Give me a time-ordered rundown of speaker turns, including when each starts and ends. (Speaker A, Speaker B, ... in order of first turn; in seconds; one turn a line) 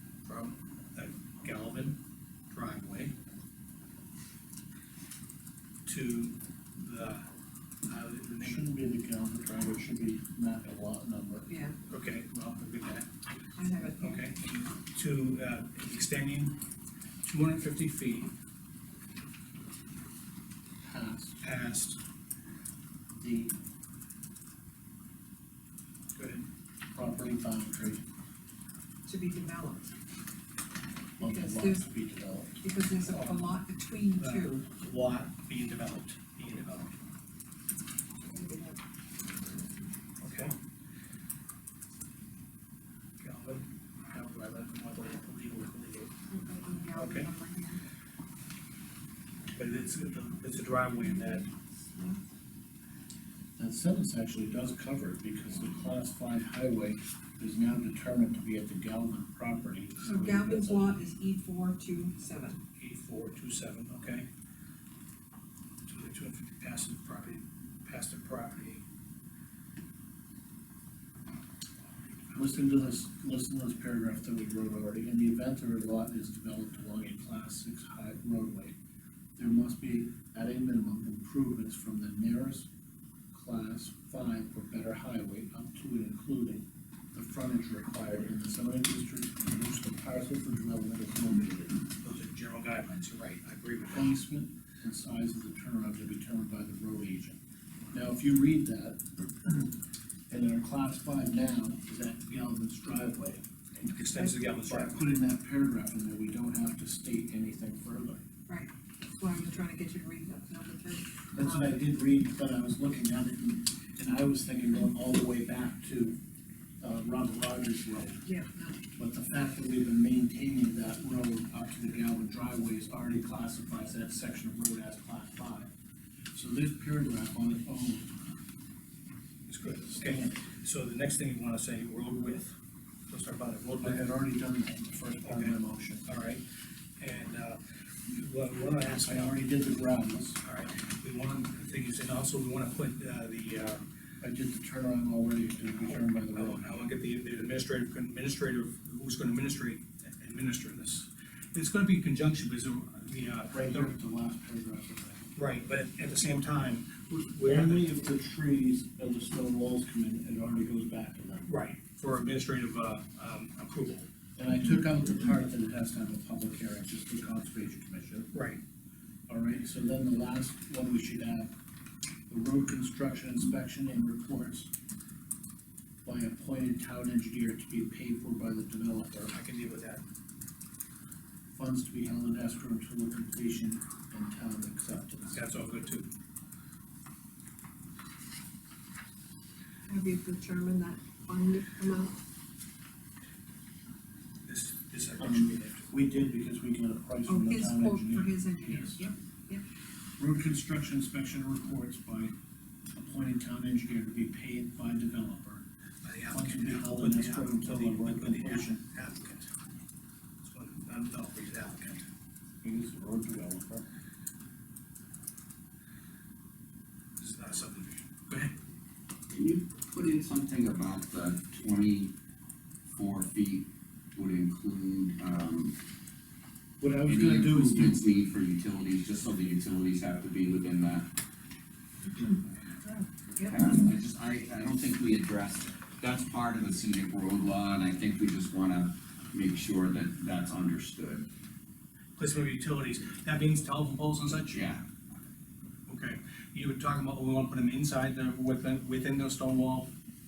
Speaker A: 0.2-2.0
Speaker A: 2.5-3.1
Speaker A: 5.8-7.3
Speaker A: 7.9-8.7
Speaker B: 8.4-11.5
Speaker C: 11.5-11.8
Speaker A: 11.9-13.1
Speaker C: 13.6-14.3
Speaker A: 14.0-16.6
Speaker A: 17.2-18.3
Speaker B: 20.8-21.4
Speaker A: 21.4-22.0
Speaker B: 23.2-23.5
Speaker A: 26.1-26.4
Speaker B: 26.9-28.0
Speaker C: 29.1-29.9
Speaker C: 31.2-31.9
Speaker B: 31.2-32.6
Speaker C: 32.6-34.6
Speaker A: 33.1-33.5
Speaker A: 34.2-36.9
Speaker C: 38.3-39.9
Speaker A: 40.2-40.5
Speaker A: 43.2-46.1
Speaker C: 46.3-47.8
Speaker A: 46.9-47.3
Speaker A: 49.5-51.5
Speaker C: 51.0-52.2
Speaker B: 53.6-60.9
Speaker C: 60.0-62.6
Speaker A: 62.8-64.3
Speaker A: 65.9-68.8
Speaker B: 72.3-78.7
Speaker B: 79.4-82.7
Speaker B: 83.3-91.8
Speaker A: 92.0-94.2
Speaker B: 93.9-97.4
Speaker B: 97.9-99.7
Speaker B: 100.3-103.4
Speaker A: 103.8-105.0
Speaker B: 104.7-108.2
Speaker C: 108.5-111.7
Speaker B: 111.3-116.2
Speaker B: 116.8-118.2
Speaker C: 118.2-118.8
Speaker B: 119.0-125.7
Speaker B: 126.3-128.1
Speaker A: 129.5-132.6
Speaker B: 129.9-130.4
Speaker A: 133.1-134.0
Speaker B: 133.8-136.0
Speaker A: 135.2-136.4
Speaker A: 137.0-139.3
Speaker B: 138.9-140.4
Speaker A: 140.4-143.9
Speaker B: 144.2-146.7
Speaker A: 145.8-153.9
Speaker B: 153.5-155.2
Speaker A: 155.3-157.8
Speaker B: 157.4-161.5
Speaker A: 161.4-164.1
Speaker B: 164.3-168.3
Speaker A: 168.3-168.6
Speaker B: 169.3-171.5
Speaker B: 172.3-174.7
Speaker B: 176.0-179.3
Speaker A: 179.3-180.0
Speaker B: 181.5-185.4
Speaker A: 185.3-186.1
Speaker C: 189.8-192.2
Speaker A: 194.4-195.9
Speaker B: 195.2-199.1
Speaker C: 197.2-199.6
Speaker B: 200.2-202.3
Speaker B: 202.9-205.6
Speaker A: 206.0-209.5
Speaker B: 206.3-208.8
Speaker A: 210.4-212.0
Speaker B: 212.6-213.8
Speaker A: 217.2-218.5
Speaker D: 219.3-222.1
Speaker D: 222.9-225.7
Speaker B: 226.8-228.1
Speaker D: 227.1-231.1
Speaker C: 232.1-233.5
Speaker D: 233.4-241.3
Speaker A: 242.2-244.7
Speaker D: 244.5-244.8
Speaker A: 245.9-249.9